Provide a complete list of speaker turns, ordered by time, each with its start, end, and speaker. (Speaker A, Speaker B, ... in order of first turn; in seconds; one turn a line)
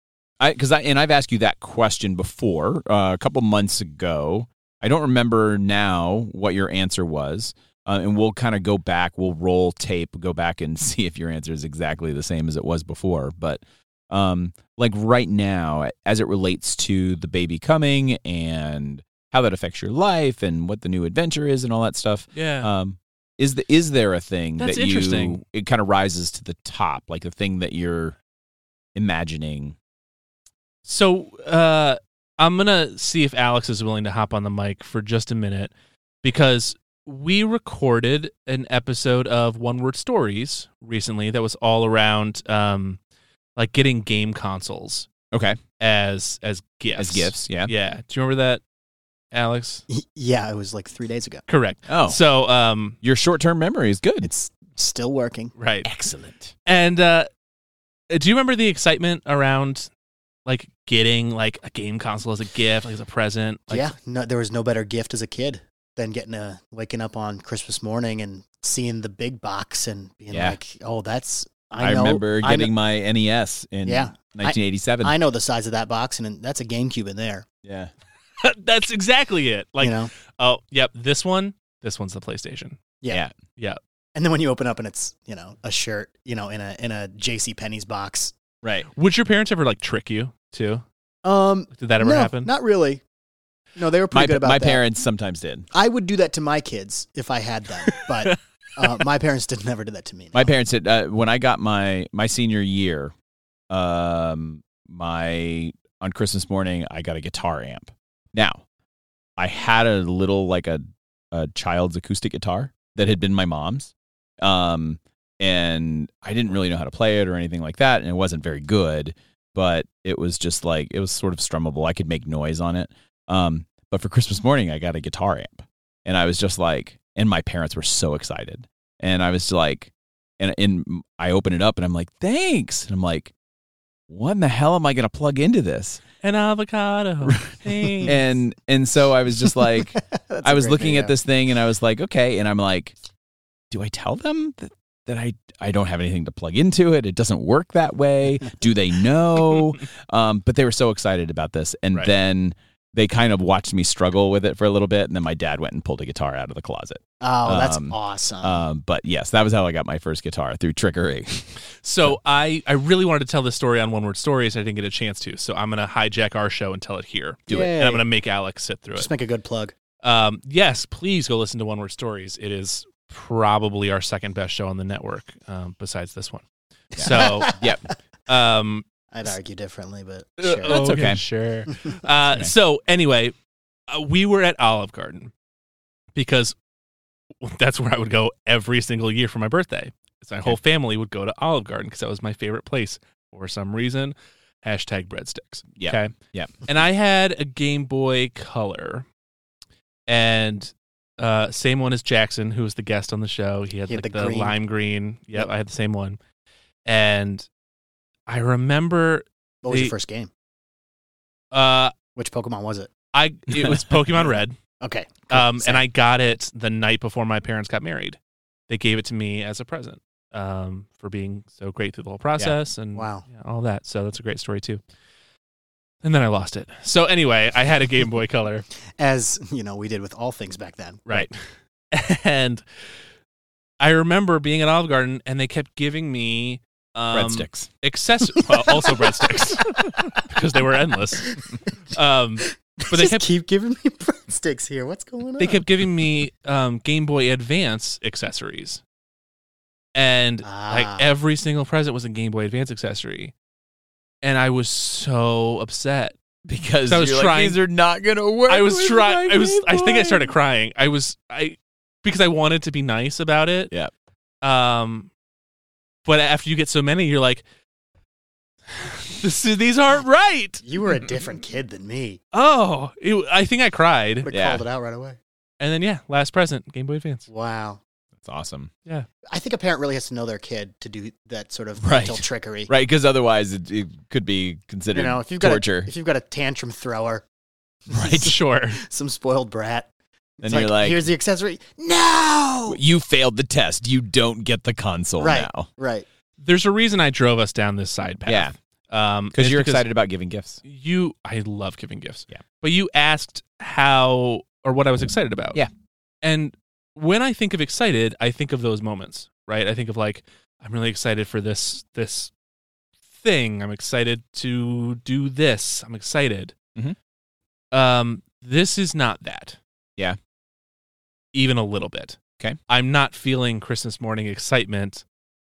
Speaker A: 0.4-28.2
Speaker B: 22.3-22.7
Speaker B: 24.6-25.4
Speaker A: 28.9-29.8
Speaker B: 30.9-35.7
Speaker B: 36.2-43.0
Speaker B: 43.6-45.1
Speaker A: 45.3-45.6
Speaker B: 45.8-48.6
Speaker A: 47.0-47.7
Speaker B: 49.3-49.8
Speaker C: 49.9-51.4
Speaker B: 51.5-53.0
Speaker A: 51.9-52.2
Speaker A: 53.0-54.3
Speaker C: 54.2-55.5
Speaker B: 55.6-55.9
Speaker A: 55.9-56.5
Speaker B: 56.6-57.3
Speaker B: 58.1-59.9
Speaker B: 60.5-63.9
Speaker C: 63.7-72.7
Speaker A: 70.3-70.6
Speaker A: 71.8-75.1
Speaker C: 73.8-77.5
Speaker A: 77.6-77.9
Speaker B: 78.4-82.8
Speaker C: 79.8-80.1
Speaker C: 84.2-88.3
Speaker B: 89.0-90.8
Speaker C: 91.2-93.0
Speaker B: 91.7-92.5
Speaker C: 93.8-94.8
Speaker A: 94.1-95.7
Speaker C: 95.7-100.5
Speaker A: 100.3-103.1
Speaker A: 103.7-108.6
Speaker A: 109.4-133.3
Speaker A: 134.1-136.0
Speaker B: 136.2-138.2
Speaker A: 137.3-142.9
Speaker C: 139.6-141.1
Speaker A: 143.7-162.2
Speaker C: 157.2-158.6
Speaker B: 161.8-169.1
Speaker A: 167.5-167.8
Speaker C: 167.5-168.0
Speaker C: 168.9-169.7
Speaker B: 170.0-176.4
Speaker A: 176.9-177.8
Speaker B: 177.0-177.6
Speaker C: 177.0-177.6
Speaker B: 178.3-178.9
Speaker C: 179.1-180.8
Speaker B: 180.4-183.3
Speaker A: 180.6-181.2
Speaker B: 183.9-185.3
Speaker B: 186.2-186.6
Speaker B: 187.4-196.1
Speaker A: 195.8-196.5
Speaker B: 196.7-199.1
Speaker B: 200.1-206.2
Speaker C: 203.9-204.6
Speaker B: 206.9-207.5
Speaker B: 208.3-209.9
Speaker C: 209.6-210.3
Speaker B: 211.5-211.9
Speaker C: 212.2-212.9
Speaker B: 213.1-214.6
Speaker C: 214.8-215.8
Speaker B: 215.3-218.2
Speaker B: 218.7-224.8
Speaker C: 222.9-223.2
Speaker B: 226.0-228.7
Speaker C: 229.0-231.0
Speaker B: 231.1-231.4
Speaker B: 231.9-232.7
Speaker B: 233.8-241.3
Speaker A: 237.1-237.7
Speaker C: 238.7-239.3
Speaker C: 241.2-241.6
Speaker B: 241.9-243.2
Speaker C: 242.5-245.7
Speaker B: 245.4-248.8
Speaker B: 249.9-253.3
Speaker C: 250.4-251.1
Speaker B: 254.2-256.2
Speaker A: 256.4-260.4
Speaker B: 256.9-257.6
Speaker B: 258.5-263.7
Speaker B: 264.4-265.1
Speaker B: 266.1-267.4
Speaker B: 268.7-270.6
Speaker C: 270.6-272.2
Speaker B: 272.3-274.3
Speaker C: 274.2-275.2
Speaker A: 274.3-274.6
Speaker B: 275.6-277.3
Speaker C: 277.3-277.8
Speaker A: 278.2-278.7
Speaker C: 279.3-282.7
Speaker A: 281.8-285.9
Speaker C: 284.9-287.2
Speaker C: 287.9-289.9
Speaker A: 287.9-288.3
Speaker B: 288.1-288.8
Speaker C: 290.4-292.8
Speaker A: 290.4-291.0
Speaker A: 292.7-295.7
Speaker C: 295.2-296.1
Speaker B: 296.4-299.9
Speaker A: 298.3-298.5
Speaker A: 299.3-300.6
Speaker B: 300.6-305.6
Speaker B: 306.2-312.3
Speaker B: 313.1-316.6
Speaker B: 317.7-319.6
Speaker B: 321.3-325.0